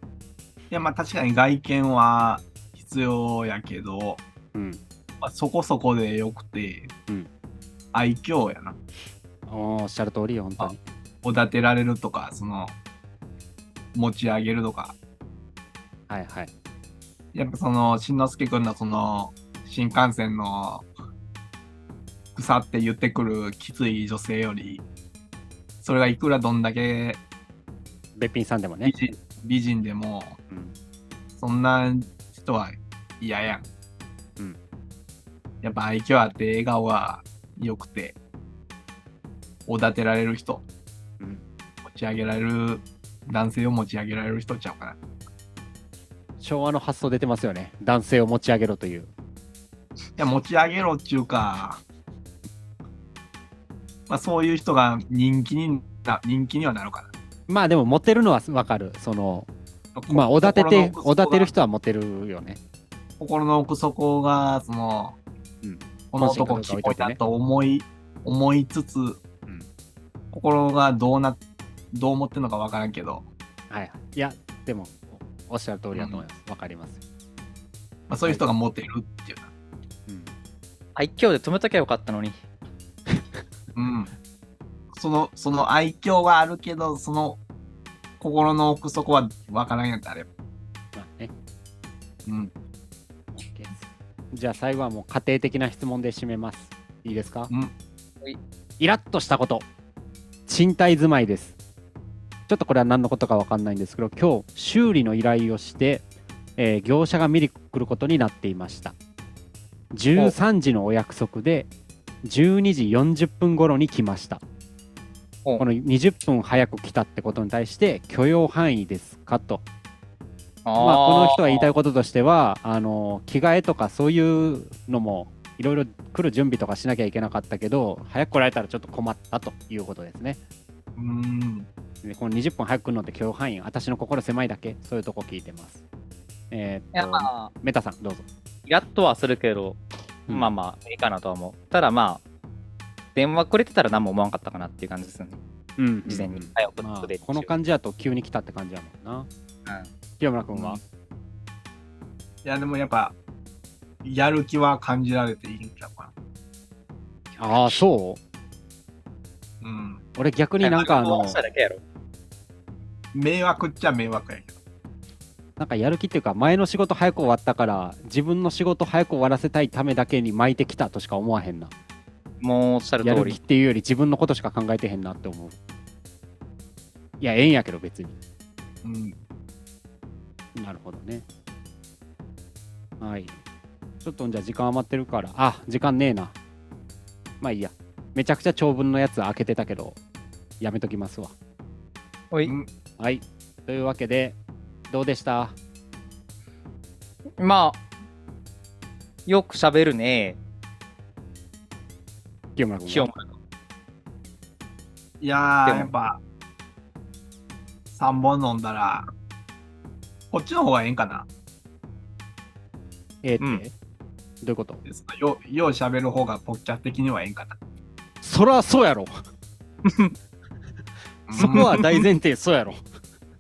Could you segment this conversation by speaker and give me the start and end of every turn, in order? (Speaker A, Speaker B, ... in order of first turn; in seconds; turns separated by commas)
Speaker A: 0.7-4.2, Speaker B: 4.5-4.8, Speaker A: 5.2-6.9, Speaker A: 7.9-8.8, Speaker B: 9.5-10.8, Speaker A: 11.2-12.8, Speaker A: 13.9-14.9, Speaker B: 16.1-16.5, Speaker A: 17.3-20.9, Speaker A: 22.3-24.8, Speaker A: 25.8-27.2, Speaker B: 28.1-28.9, Speaker A: 28.8-30.4, Speaker A: 31.4-33.7, Speaker A: 35.6-38.2, Speaker A: 39.7-40.6, Speaker A: 41.8-45.0, Speaker B: 46.4-49.1, Speaker A: 50.2-51.8, Speaker A: 54.1-57.1, Speaker B: 57.5-59.5, Speaker A: 59.9-61.5, Speaker B: 60.1-62.6, Speaker A: 63.2-65.2, Speaker B: 65.6-67.2, Speaker A: 66.1-69.2, Speaker A: 70.3-71.4, Speaker A: 71.9-73.2, Speaker B: 73.7-77.0, Speaker A: 75.9-76.2, Speaker A: 78.1-79.5, Speaker B: 80.1-80.3, Speaker C: 81.0-82.3, Speaker B: 83.1-83.4, Speaker A: 83.7-84.1, Speaker A: 84.9-87.4, Speaker A: 88.2-90.3, Speaker B: 90.9-91.3, Speaker A: 92.2-92.5, Speaker B: 93.3-97.5, Speaker B: 98.8-99.7, Speaker B: 100.5-101.5, Speaker B: 102.5-106.0, Speaker B: 106.6-108.9, Speaker B: 109.9-111.7, Speaker B: 112.2-114.4, Speaker B: 115.6-119.6, Speaker C: 120.6-121.7, Speaker B: 120.8-130.4, Speaker A: 130.9-131.7, Speaker B: 132.0-135.8, Speaker B: 136.5-138.2, Speaker C: 136.9-137.5, Speaker C: 138.7-142.2, Speaker C: 143.1-145.4, Speaker B: 145.8-149.3, Speaker C: 146.1-147.5, Speaker B: 150.2-150.8, Speaker A: 150.5-150.8, Speaker A: 152.4-153.1, Speaker A: 154.0-156.1, Speaker B: 157.4-158.2, Speaker A: 159.6-160.0, Speaker B: 160.2-161.4, Speaker C: 160.6-161.8, Speaker A: 163.1-164.5, Speaker B: 165.6-171.7, Speaker C: 172.4-173.4, Speaker B: 173.0-175.6, Speaker B: 177.2-178.1, Speaker A: 178.8-179.2, Speaker B: 180.6-181.2, Speaker B: 183.0-183.3, Speaker B: 184.0-186.3, Speaker B: 187.4-190.0, Speaker B: 190.6-191.3, Speaker B: 193.0-194.4, Speaker B: 194.9-195.5, Speaker C: 197.4-197.8, Speaker C: 199.2-200.4, Speaker B: 202.6-203.1, Speaker C: 202.9-203.3, Speaker A: 205.2-206.2, Speaker C: 205.7-205.9, Speaker A: 207.9-209.1, Speaker A: 210.3-211.3, Speaker B: 213.2-213.7, Speaker B: 214.4-214.8, Speaker A: 214.8-217.6, Speaker B: 218.2-219.2, Speaker C: 219.8-220.1, Speaker A: 221.3-222.0, Speaker B: 221.3-222.8